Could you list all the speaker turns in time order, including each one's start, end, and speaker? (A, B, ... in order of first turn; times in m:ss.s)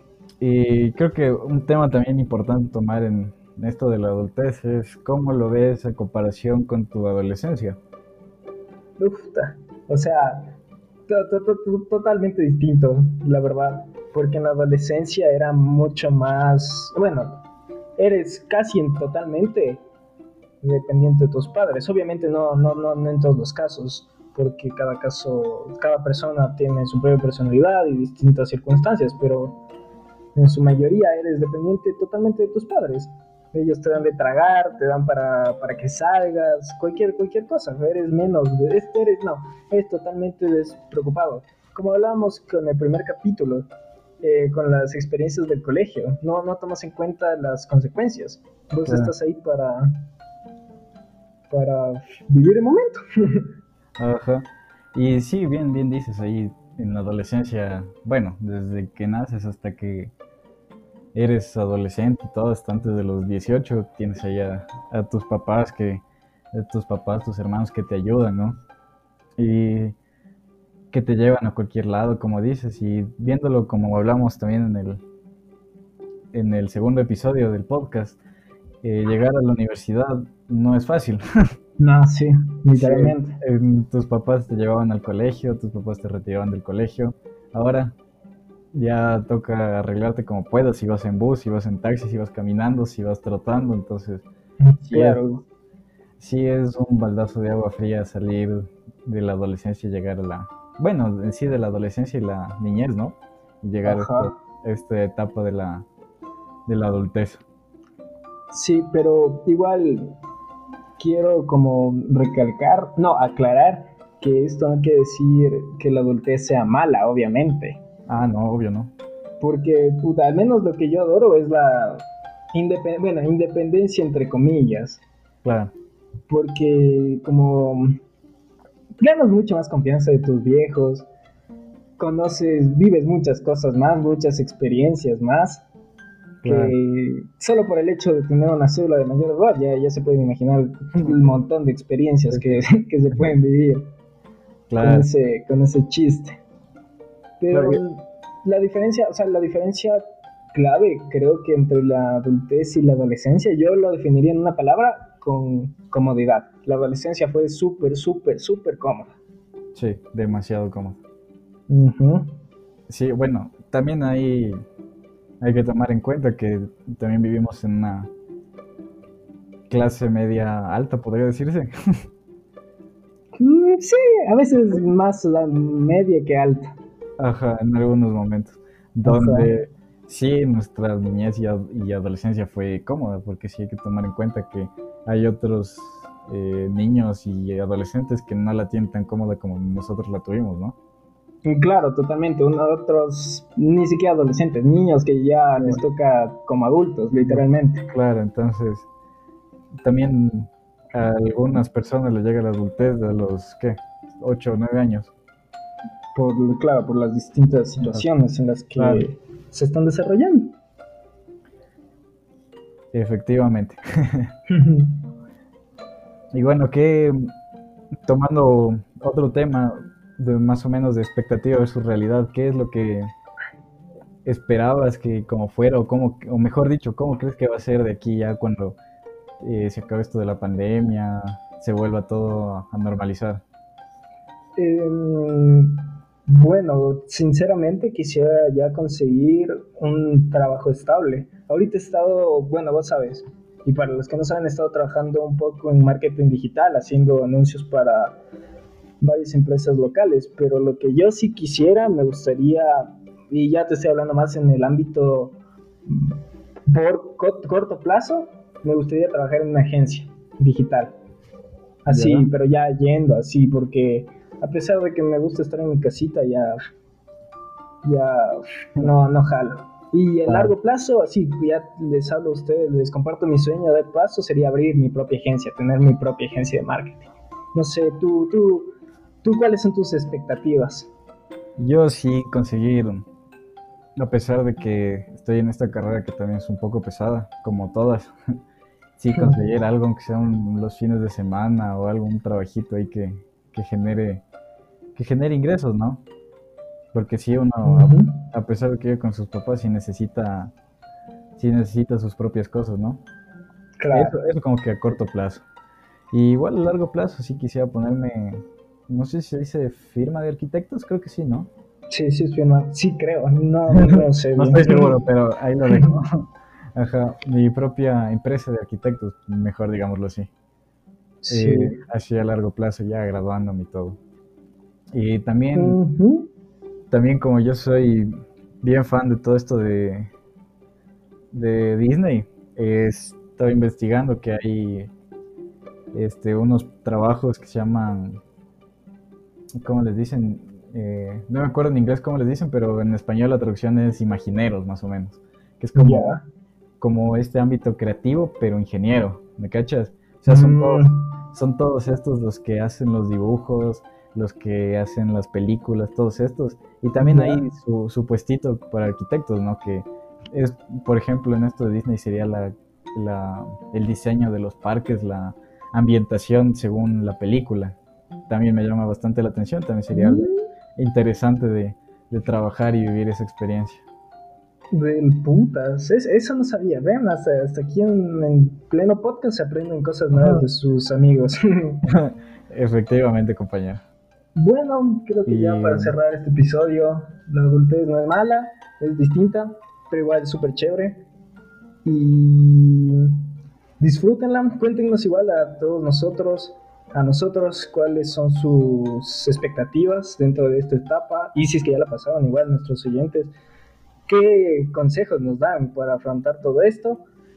0:00.4-0:07.8 A
0:09.0-0:10.6 B
0:11.1-0:17.4 B
0:18.0-0:19.8 B
0:20.6-0:29.6 B
0:30.3-0:43.7 B
0:44.2-0:49.9 B
0:48.8-0:49.1 A
0:51.5-0:53.5 B
0:54.0-1:00.1 A
1:01.1-1:08.6 A
1:09.4-1:10.0 A
1:10.9-1:15.0 A
1:16.3-1:18.2 A
1:18.8-1:21.2 A
1:21.8-1:23.4 B
1:22.7-1:27.9 A
1:28.7-1:34.2 A
1:34.6-1:35.4 B
1:34.9-1:35.2 A
1:36.2-1:45.9 A
1:43.8-1:44.3 B
1:46.7-1:47.4 A
1:48.5-1:50.1 B
1:51.0-1:57.8 B
1:58.1-1:58.9 A
1:59.4-2:05.0 B
2:05.4-2:05.7 A
2:06.3-2:07.9 B
2:09.0-2:11.1 B
2:12.0-2:15.6 B
2:16.4-2:16.8 A
2:16.4-2:23.9 B
2:24.7-2:25.1 A
2:24.8-2:26.4 B
2:27.4-2:30.0 B
2:27.5-2:27.8 A
2:30.5-2:39.1 B
2:39.7-2:41.0 A
2:41.7-2:42.3 B
2:42.9-2:44.6 A
2:45.4-2:48.1 A
2:49.7-2:51.7 A
2:53.4-2:56.7 B
2:57.2-3:10.8 A
2:59.0-2:59.5 B
3:11.4-3:17.9 B
3:17.2-3:18.9 A
3:19.8-3:25.1 A
3:26.1-3:30.5 B
3:28.8-3:29.0 A
3:32.9-3:34.3 A
3:34.5-3:35.0 B
3:36.3-3:37.3 A
3:38.0-3:43.1 A
3:44.2-3:48.8 A
3:49.4-3:53.4 A
3:54.6-4:08.2 B
4:09.0-4:15.3 B
4:15.9-4:21.0 B
4:21.8-4:26.6 B
4:21.9-4:22.3 A
4:27.8-4:40.9 B
4:30.2-4:30.5 A
4:41.6-4:43.1 A
4:44.0-4:48.1 A
4:49.0-4:54.2 A
4:54.9-4:56.0 A
4:56.9-5:00.5 A
4:57.6-4:58.2 B
5:01.4-5:03.0 A
5:03.8-5:04.1 B
5:03.9-5:05.4 A
5:06.1-5:11.5 A
5:11.9-5:15.0 B
5:13.8-5:20.3 A
5:21.2-5:21.7 B
5:21.3-5:24.0 A
5:24.9-5:25.8 A
5:25.5-5:26.3 B
5:26.9-5:30.1 A
5:31.3-5:34.9 A
5:35.9-5:38.2 A
5:39.6-5:46.2 A
5:45.7-5:46.2 B
5:46.8-6:07.7 A
5:50.3-5:51.0 B
5:57.0-5:57.4 B
6:08.3-6:13.8 A
6:09.9-6:10.4 B
6:14.7-6:21.8 B
6:20.1-6:20.4 A
6:21.9-6:23.8 A
6:24.3-6:31.0 B
6:25.2-6:26.0 A
6:31.8-6:33.2 B
6:33.8-6:43.3 B
6:44.1-6:47.0 B